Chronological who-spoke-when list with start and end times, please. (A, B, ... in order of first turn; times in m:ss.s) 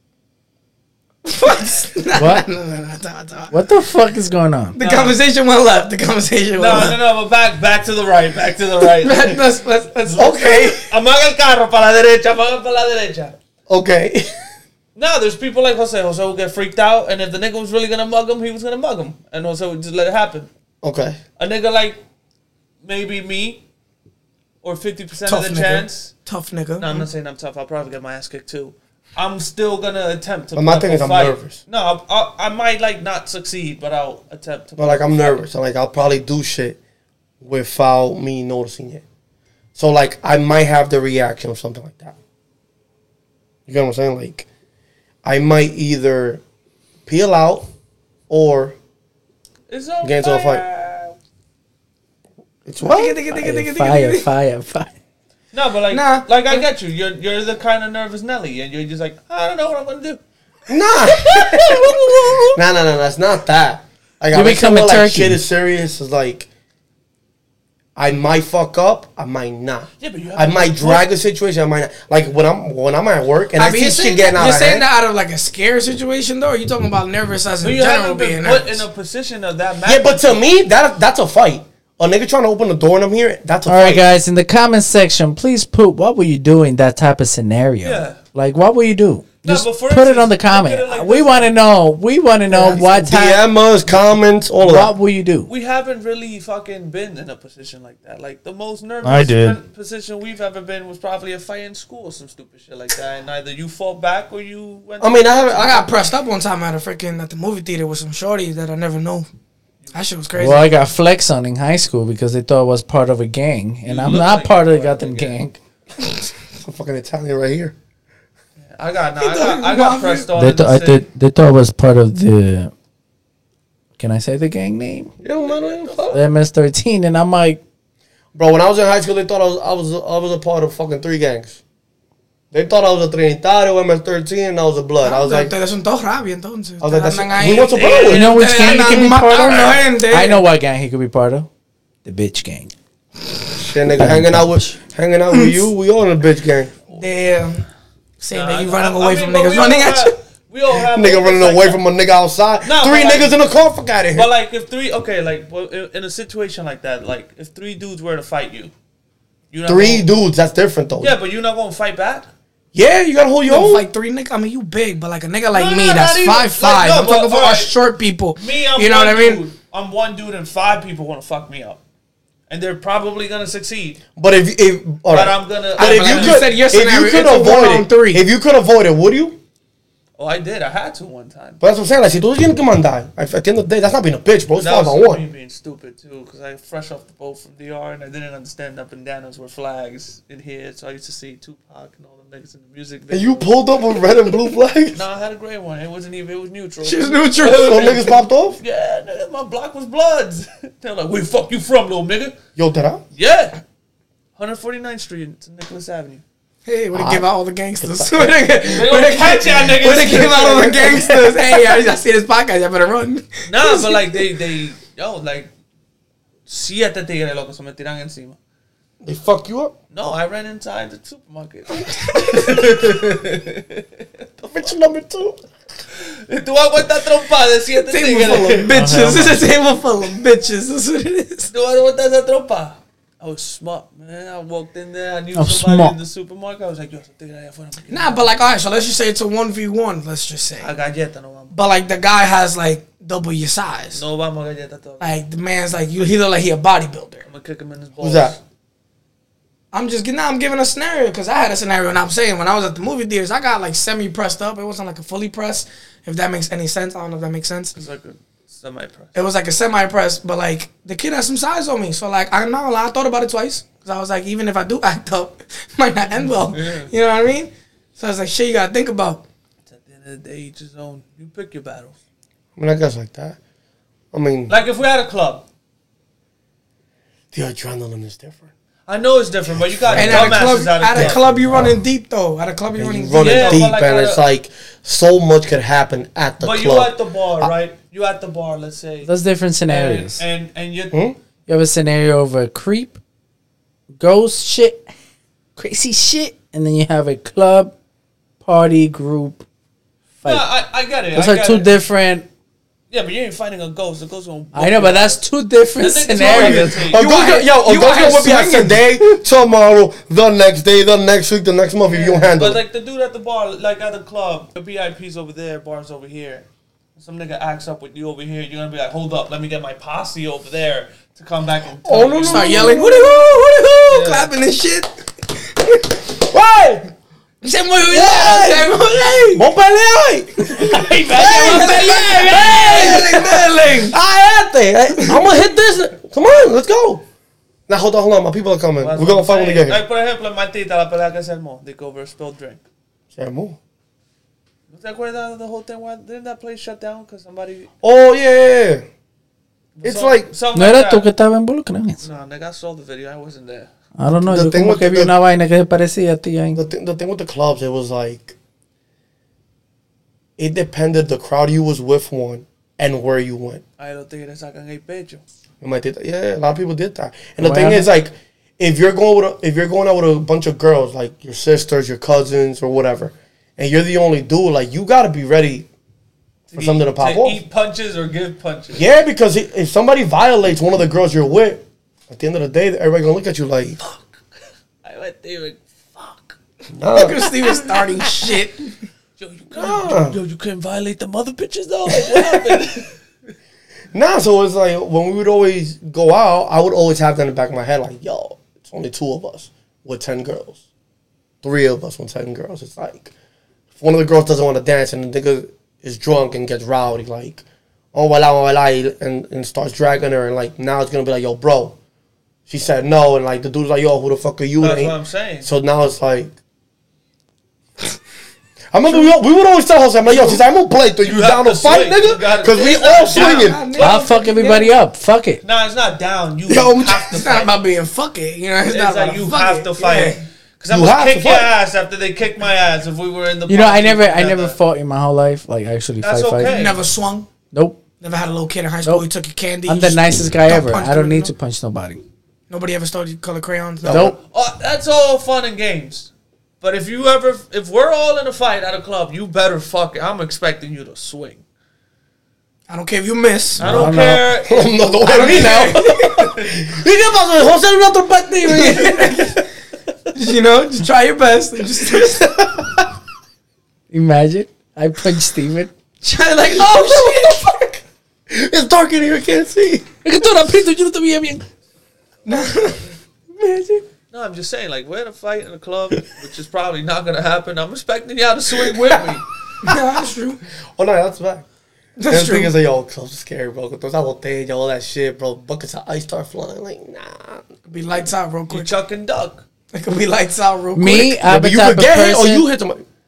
0:01.2-0:03.6 A
0:02.2-0:02.5 B
0:03.5-0:04.8 B
0:04.8-0:07.0 A
0:04.8-0:05.2 C
0:06.6-0:09.4 C
0:09.0-0:10.8 A
0:10.1-0:13.4 C
0:10.2-0:10.8 D
0:13.7-0:14.3 D
0:15.0-0:20.5 C
0:20.8-0:21.2 D
0:21.4-0:22.0 C
0:22.8-0:23.6 C
0:24.6-0:26.1 C
0:25.3-0:27.1 A
0:26.8-0:35.4 C
0:30.6-0:31.6 D
0:34.8-0:36.8 D
0:37.4-0:39.0 D
0:39.8-0:42.2 D
0:43.7-0:44.5 D
0:45.2-0:46.4 D
0:47.1-0:47.7 D
0:48.3-0:48.8 D
0:49.7-0:51.1 C
0:50.0-0:50.6 D
0:52.7-0:53.2 D
0:52.8-0:54.3 A
0:53.3-0:54.9 B
0:55.5-1:00.2 C
0:55.9-0:56.6 A
1:00.7-1:06.5 D
1:01.1-1:02.6 C
1:04.3-1:05.4 B
1:08.0-1:14.9 D
1:10.0-1:11.1 C
1:13.6-1:18.8 A
1:17.6-1:20.4 C
1:19.9-1:24.0 D
1:23.7-1:33.4 B
1:27.8-1:28.2 C
1:29.4-1:31.5 C
1:32.5-1:34.9 D
1:34.6-1:35.5 B
1:35.5-1:45.6 C
1:39.0-1:39.6 B
1:45.0-1:45.8 D
1:45.5-1:49.3 A
1:49.9-1:50.7 A
1:50.4-1:55.6 B
1:53.9-1:55.4 C
1:56.6-1:57.8 D
1:58.6-2:01.0 C
1:59.2-2:00.3 A
2:00.4-2:02.7 B
2:04.0-2:05.1 B
2:05.2-2:06.2 D
2:05.4-2:06.1 C
2:06.1-2:07.6 B
2:08.4-2:11.6 D
2:12.5-2:15.5 D
2:15.0-2:20.4 A
2:16.8-2:18.3 D
2:17.5-2:19.8 C
2:18.1-2:21.5 B
2:22.0-2:22.7 B
2:23.6-2:26.7 D
2:23.8-2:24.8 B
2:25.3-2:25.6 A
2:26.9-2:27.6 A
2:28.2-2:30.2 A
2:28.3-2:31.8 C
2:30.7-2:34.3 D
2:32.6-2:33.4 C
2:34.1-2:38.7 C
2:39.5-2:40.1 C
2:39.7-2:41.2 D
2:41.0-2:42.3 C
2:42.7-2:43.8 D
2:43.5-2:49.4 A
2:45.5-2:47.7 C
2:48.4-2:51.8 C
2:52.5-2:54.0 C
2:54.2-2:59.4 D
2:55.1-2:56.5 C
2:55.8-2:58.2 A
3:00.2-3:01.6 C
3:01.6-3:05.2 D
3:04.6-3:13.5 C
3:13.1-3:15.0 D
3:14.9-3:22.4 C
3:16.8-3:18.1 A
3:17.4-3:18.6 D
3:22.6-3:23.0 D
3:23.2-3:23.6 C
3:24.4-3:26.2 C
3:26.7-3:34.3 A
3:26.9-3:27.3 D
3:27.8-3:28.6 D
3:28.7-3:31.6 C
3:29.9-3:31.0 D
3:33.5-3:35.5 C
3:36.5-3:38.4 C
3:39.0-3:39.7 D
3:39.9-3:44.1 C
3:41.9-3:42.6 A
3:44.4-3:45.4 D
3:46.0-3:48.7 C
3:47.7-3:51.5 A
3:48.7-3:49.5 B
3:51.5-3:58.3 C
3:55.4-3:56.0 B
3:57.9-4:00.7 A
4:00.6-4:01.5 C
4:01.5-4:04.0 A
4:03.9-4:05.2 C
4:05.0-4:07.2 A
4:07.3-4:08.4 C
4:08.0-4:08.4 D
4:09.7-4:17.8 A
4:17.8-4:19.2 C
4:19.2-4:29.2 A
4:26.5-4:26.9 C
4:29.7-4:32.0 C
4:32.6-4:33.4 D
4:34.1-4:34.6 D
4:34.5-4:35.4 C
4:37.3-4:38.5 D
4:38.9-4:41.3 C
4:39.7-4:41.8 D
4:39.9-4:43.7 A
4:42.8-4:47.5 D
4:43.1-4:44.2 C
4:46.4-4:49.1 C
4:49.0-4:50.2 B
4:49.7-4:51.0 C
4:51.5-4:53.0 B
4:54.0-4:54.9 B
4:55.6-4:57.7 B
4:58.4-4:59.4 B
5:00.2-5:01.8 C
5:01.2-5:02.3 B
5:02.9-5:05.2 C
5:04.5-5:06.8 B
5:05.8-5:07.0 C
5:06.2-5:12.6 D
5:06.9-5:09.0 A
5:11.9-5:16.5 C
5:17.0-5:22.8 C
5:21.8-5:23.3 D
5:22.2-5:26.1 A
5:23.9-5:24.3 C
5:26.2-5:26.9 D
5:27.4-5:29.5 A
5:27.8-5:28.8 D
5:29.3-5:37.0 D
5:30.5-5:34.0 A
5:30.6-5:33.1 B
5:37.7-5:39.8 D
5:38.8-5:42.6 C
5:43.1-5:43.6 D
5:44.7-5:47.7 C
5:47.8-5:48.9 D
5:49.8-5:51.1 C
5:49.8-5:50.3 D
5:50.5-5:52.0 B
5:52.0-5:53.7 C
5:54.0-5:56.6 B
5:54.3-5:55.1 D
5:56.6-5:58.4 D
6:00.4-6:03.6 D
6:03.8-6:05.2 C
6:05.6-6:15.7 D
6:07.4-6:07.9 B
6:16.5-6:18.8 C
6:16.6-6:17.4 D
6:18.7-6:23.8 D
6:23.8-6:24.2 C
6:24.8-6:26.4 C
6:26.8-6:27.2 D
6:26.9-6:28.7 A
6:29.2-6:32.9 C
6:29.5-6:30.2 D
6:31.9-6:32.6 D
6:33.9-6:40.6 D
6:41.4-6:43.1 D
6:43.8-6:51.8 D
6:52.5-6:56.3 D
6:54.6-6:55.5 C
6:58.7-7:03.9 D
6:58.9-6:59.1 A
7:00.1-7:00.4 A
7:01.0-7:03.6 C
7:02.7-7:04.7 A
7:03.8-7:05.4 B
7:05.4-7:07.6 C
7:06.5-7:10.2 A
7:08.7-7:14.6 C
7:10.7-7:11.5 D
7:13.5-7:16.6 B
7:16.0-7:16.8 C
7:16.5-7:17.3 A
7:17.5-7:17.8 B
7:18.0-7:21.3 A
7:19.7-7:22.0 B
7:22.5-7:24.1 A
7:23.8-7:24.2 D
7:23.9-7:24.2 B
7:24.2-7:26.1 C
7:26.6-7:31.4 C
7:32.7-7:33.9 A
7:33.6-7:34.7 C
7:33.6-7:34.2 B
7:34.4-7:39.4 D
7:35.0-7:36.2 A
7:38.4-7:39.4 A
7:40.1-7:42.4 A
7:41.9-7:42.9 D
7:43.9-7:45.7 B
7:46.0-7:47.6 A
7:46.5-7:49.9 D
7:50.0-7:51.4 B
7:52.2-7:52.9 A
7:53.4-7:53.8 B
7:54.1-7:59.3 C
7:58.5-7:59.2 D
7:59.6-8:00.4 A
8:00.8-8:01.5 D
8:02.0-8:02.5 A
8:02.1-8:07.4 D
8:07.7-8:08.7 A
8:08.5-8:09.4 C
8:09.7-8:11.2 A
8:10.8-8:12.5 B
8:11.2-8:12.8 D